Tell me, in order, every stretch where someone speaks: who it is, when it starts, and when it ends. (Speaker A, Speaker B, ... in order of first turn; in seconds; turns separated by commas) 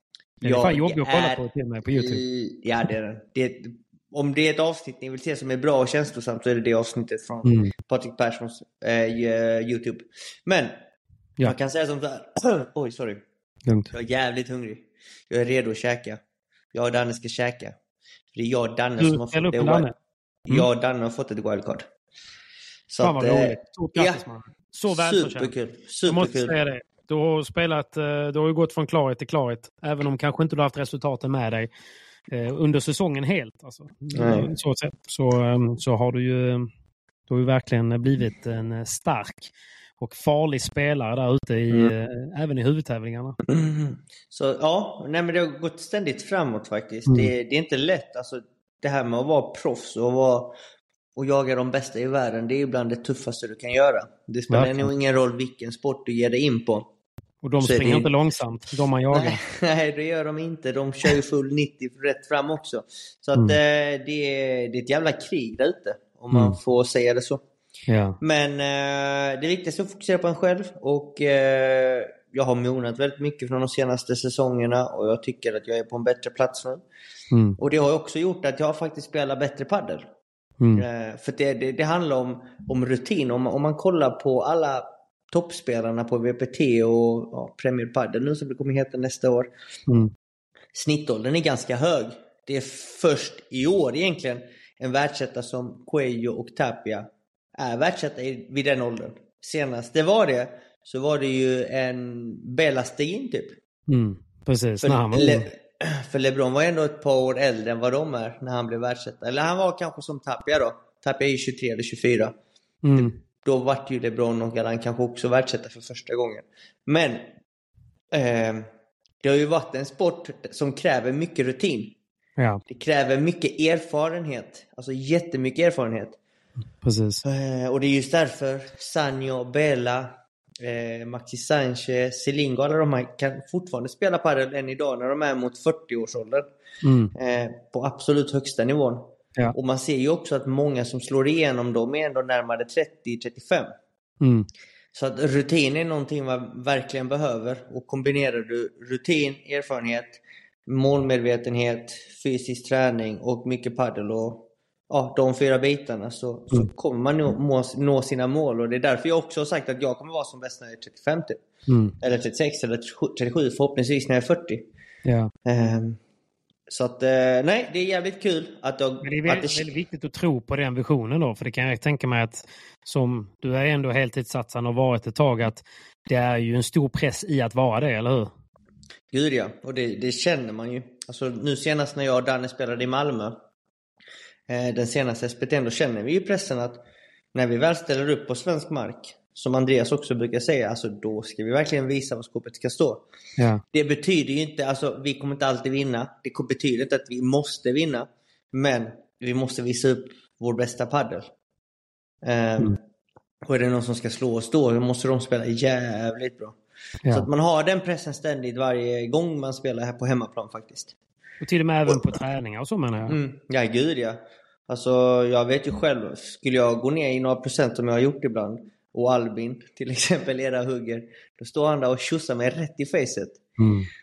Speaker A: 0.4-10.8, Speaker B: 0.4-2.2, Speaker B: 7.5-7.7, Speaker A: 11.4-13.2, Speaker B: 13.7-13.9, Speaker A: 13.9-16.2, Speaker A: 16.7-17.8, Speaker A: 18.3-19.9, Speaker B: 19.0-19.9, Speaker A: 20.5-21.9, Speaker A: 22.9-24.2, Speaker B: 23.0-25.5, Speaker A: 24.9-26.6, Speaker B: 26.1-31.7, Speaker B: 32.3-36.7, Speaker A: 34.1-34.5, Speaker B: 37.3-43.4, Speaker A: 43.5-50.6, Speaker B: 47.1-47.3, Speaker A: 51.2-56.9, Speaker B: 54.5-54.9, Speaker B: 57.4-59.4, Speaker A: 57.6-58.1, Speaker A: 59.1-67.4, Speaker B: 66.3-66.6, Speaker B: 67.9-68.2, Speaker A: 68.2-76.8, Speaker B: 77.3-77.6, Speaker A: 77.6-80.1, Speaker B: 80.6-80.8, Speaker A: 80.8-89.5, Speaker B: 89.9-90.1, Speaker A: 90.7-103.6, Speaker B: 103.9-105.5, Speaker A: 104.8-112.3, Speaker B: 112.8-113.2, Speaker A: 113.0-117.3, Speaker A: 118.1-118.7, Speaker A: 119.2-122.0, Speaker A: 122.7-126.2, Speaker B: 126.8-127.2, Speaker A: 127.2-136.5, Speaker B: 136.8-137.1, Speaker A: 137.2-143.7, Speaker B: 144.2-144.5, Speaker A: 144.9-161.4, Speaker B: 161.7-162.0, Speaker A: 162.0-164.7, Speaker B: 165.1-165.3, Speaker A: 165.4-166.0, Speaker A: 166.7-169.7, Speaker B: 169.0-178.3, Speaker A: 179.1-183.4, Speaker A: 184.5-186.8, Speaker A: 187.3-193.1, Speaker B: 193.4-193.6, Speaker A: 193.7-201.3, Speaker A: 202.2-202.8, Speaker A: 203.4-206.6, Speaker A: 207.1-210.9, Speaker B: 211.4-213.2, Speaker A: 213.1-223.4, Speaker B: 223.6-223.9